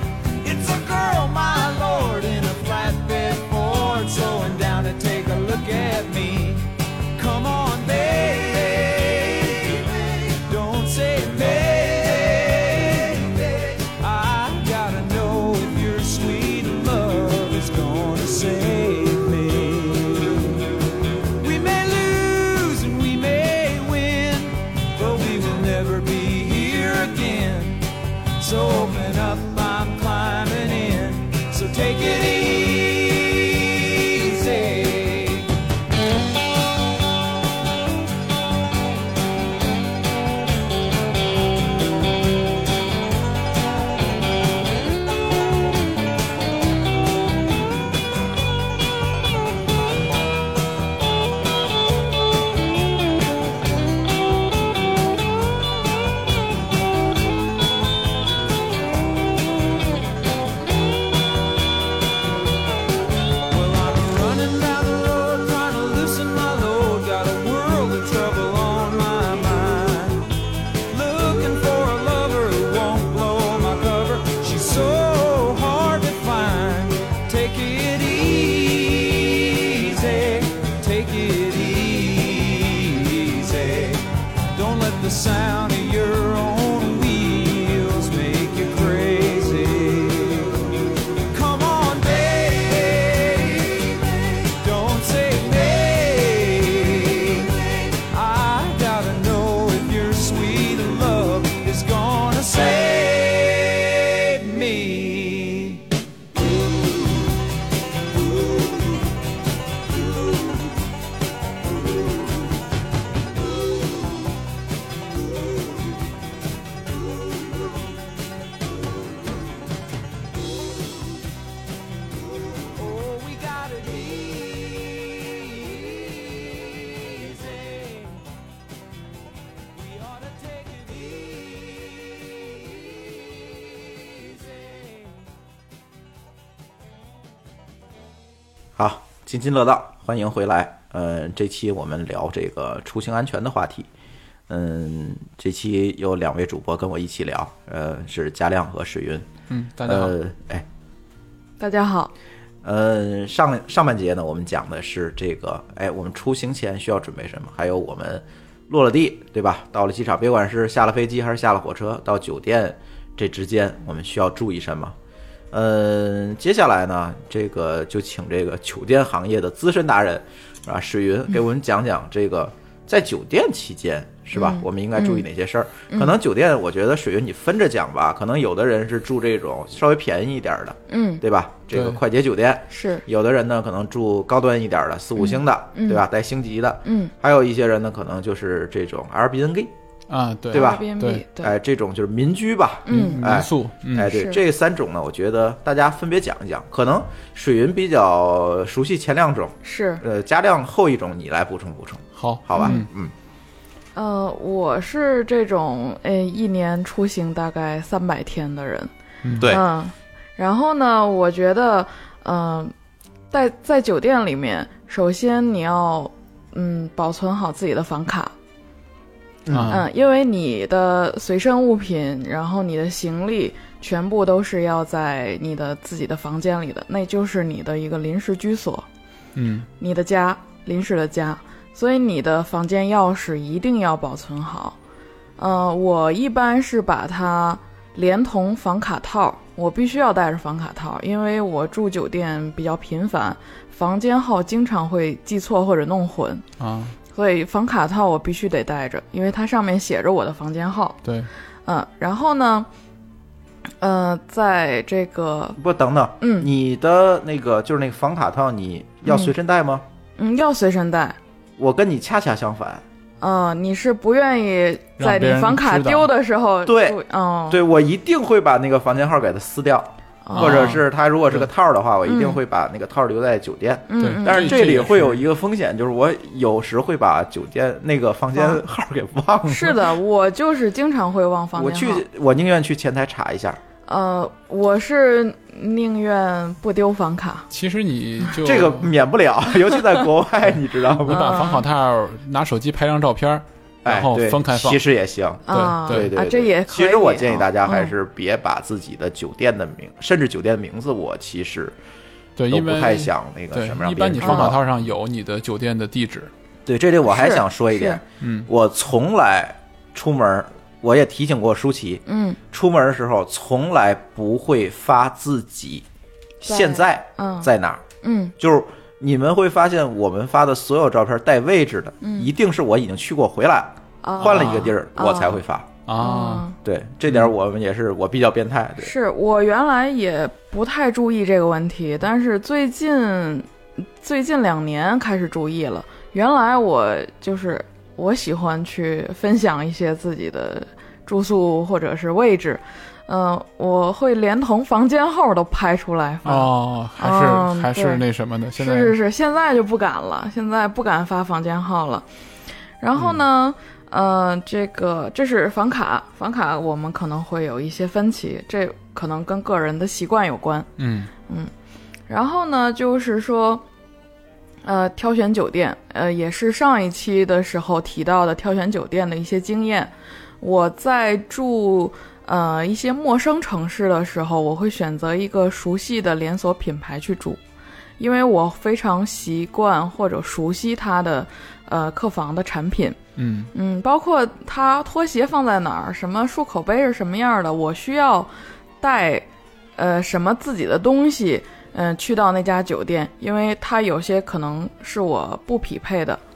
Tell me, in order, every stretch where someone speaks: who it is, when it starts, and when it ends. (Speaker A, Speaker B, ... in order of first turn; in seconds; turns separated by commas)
Speaker A: 0.4-20.6, Speaker A: 21.4-27.9, Speaker A: 28.4-35.5, Speaker A: 63.5-70.2, Speaker A: 70.9-90.7, Speaker A: 91.3-105.9, Speaker A: 106.7-106.9, Speaker A: 122.6-128.2, Speaker A: 129.7-133.0, Speaker A: 134.1-135.1, Speaker B: 138.8-143.9, Speaker B: 144.5-149.3, Speaker C: 149.5-150.2, Speaker B: 149.9-150.7, Speaker D: 151.6-152.1, Speaker B: 152.6-164.9, Speaker B: 165.5-189.7, Speaker D: 174.3-175.3, Speaker D: 175.9-176.2, Speaker D: 180.9-181.2, Speaker C: 181.7-182.0, Speaker D: 182.7-183.0, Speaker D: 185.2-186.0, Speaker D: 186.8-187.1, Speaker C: 190.1-191.2, Speaker B: 190.5-190.8, Speaker D: 190.5-191.5, Speaker B: 191.4-203.1, Speaker D: 192.9-193.2, Speaker C: 192.9-194.1, Speaker D: 194.1-194.4, Speaker D: 199.6-200.0, Speaker C: 202.2-202.9, Speaker D: 203.9-208.9, Speaker C: 209.2-209.6, Speaker D: 209.5-212.7, Speaker D: 213.3-218.3, Speaker B: 219.5-219.8, Speaker C: 219.5-219.8, Speaker D: 219.7-228.9, Speaker C: 229.4-229.7, Speaker D: 229.8-234.8, Speaker D: 235.4-246.4, Speaker C: 246.6-246.9, Speaker D: 247.1-251.0, Speaker C: 251.0-251.3, Speaker D: 251.7-252.7, Speaker D: 253.8-255.6, Speaker B: 255.6-259.9, Speaker D: 256.2-256.5, Speaker D: 259.1-259.3, Speaker D: 260.2-261.2, Speaker B: 261.6-262.8, Speaker D: 263.2-267.6, Speaker C: 265.0-266.1, Speaker B: 266.7-279.9, Speaker D: 270.2-270.8, Speaker C: 270.3-271.5, Speaker D: 272.1-272.4, Speaker D: 273.9-274.6, Speaker C: 274.0-275.2, Speaker D: 279.5-282.0, Speaker B: 281.6-283.6, Speaker D: 283.9-287.5, Speaker C: 287.5-288.9, Speaker B: 288.4-291.4, Speaker C: 291.0-294.8, Speaker D: 291.1-291.6, Speaker B: 293.9-301.8, Speaker D: 295.5-297.9, Speaker C: 295.5-296.1, Speaker C: 302.4-306.3, Speaker B: 302.5-304.6, Speaker D: 304.2-304.5, Speaker B: 306.7-315.9, Speaker D: 307.1-308.0, Speaker C: 308.2-308.5, Speaker D: 312.1-312.4, Speaker B: 316.4-317.8, Speaker D: 316.4-317.5, Speaker D: 318.0-318.3, Speaker B: 318.4-325.7, Speaker D: 322.0-322.3, Speaker D: 324.0-325.4, Speaker C: 324.2-324.7, Speaker C: 325.9-326.4, Speaker D: 326.0-326.6, Speaker B: 326.6-328.9, Speaker D: 328.8-333.5, Speaker D: 334.0-348.0, Speaker C: 346.2-349.0, Speaker D: 348.6-352.1, Speaker D: 352.8-360.7, Speaker C: 360.8-361.1, Speaker D: 362.1-363.6, Speaker D: 364.6-377.4, Speaker D: 378.0-383.0, Speaker C: 383.2-383.5, Speaker D: 383.5-388.3, Speaker D: 388.8-389.3, Speaker D: 389.8-396.2